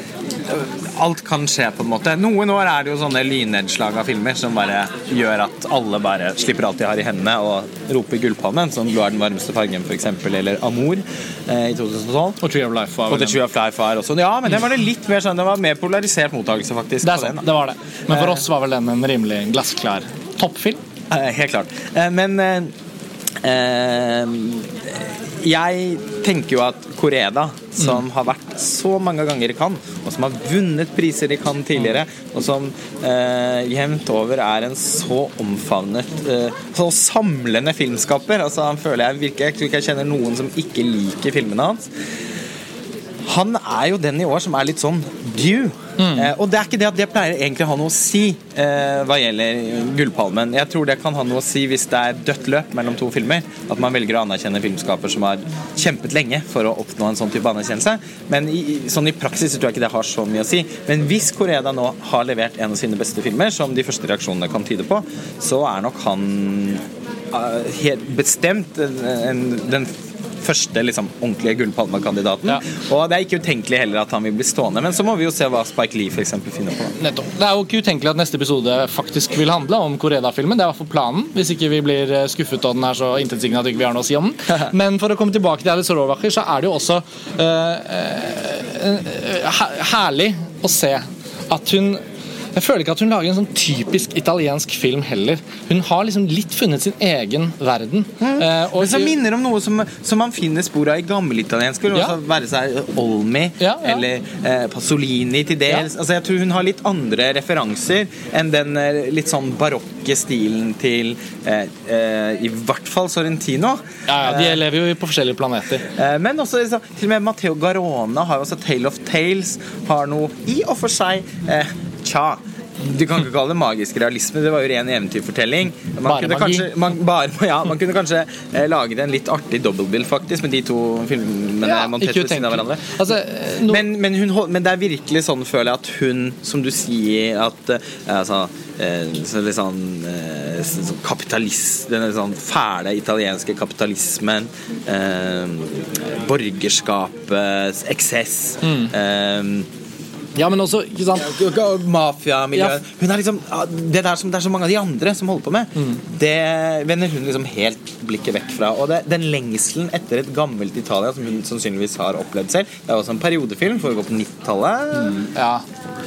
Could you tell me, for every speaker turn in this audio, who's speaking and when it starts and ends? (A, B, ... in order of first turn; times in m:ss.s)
0:00.4-0:12.4 A
0:12.4-0:13.4 B
0:13.1-0:17.5 A
0:17.0-0:20.8 B
0:18.1-0:18.4 A
0:21.1-0:22.7 A
0:23.4-0:41.9 A
0:43.3-1:09.9 A
0:46.0-0:46.3 B
1:10.4-1:16.9 A
1:17.0-1:32.0 B
1:32.6-1:39.2 B
1:38.2-1:54.6 A
1:43.6-1:44.0 B
1:54.1-1:55.9 B
1:55.9-2:12.9 A
2:06.1-2:06.7 B
2:11.6-2:13.8 B
2:13.6-2:29.7 A
2:28.6-2:28.9 B
2:30.4-2:31.3 B
2:31.2-2:45.3 A
2:45.2-2:45.6 B